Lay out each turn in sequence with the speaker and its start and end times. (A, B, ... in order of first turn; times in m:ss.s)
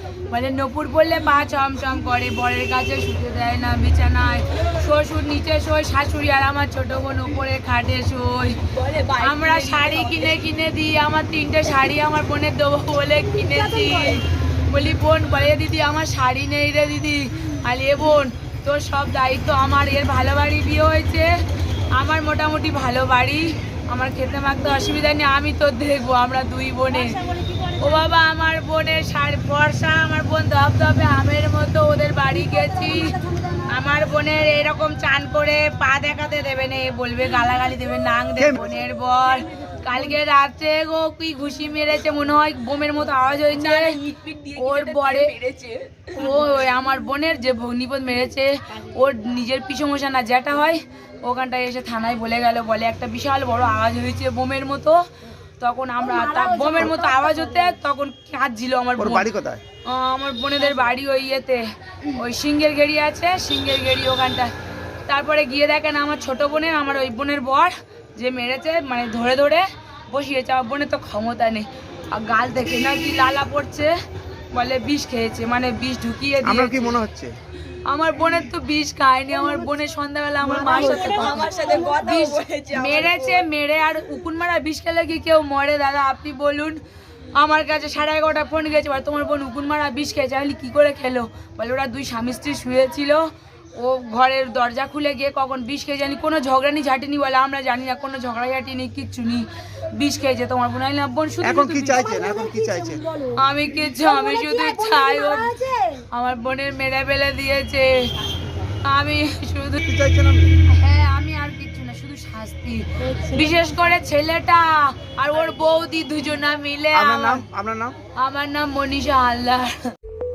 0:00.3-0:08.6 A
0:08.7-0:10.4 B
0:09.2-0:21.3 A
0:21.9-0:44.0 A
0:38.4-0:38.8 C
0:43.5-0:46.2 B
0:44.6-0:45.3 A
0:46.2-0:55.0 A
0:55.6-0:59.3 A
0:56.7-0:57.0 C
0:59.0-0:59.6 C
0:59.9-1:04.5 A
1:05.1-1:13.9 A
1:14.5-1:17.0 A
1:16.4-1:17.3 C
1:17.9-1:26.8 A
1:20.4-1:23.4 B
1:27.4-1:33.2 A
1:33.8-1:42.0 A
1:41.4-1:43.0 C
1:43.4-1:47.9 A
1:48.8-1:49.8 A
1:49.8-1:50.5 C
1:50.7-1:57.4 A
1:56.9-1:57.9 C
1:58.2-1:59.8 A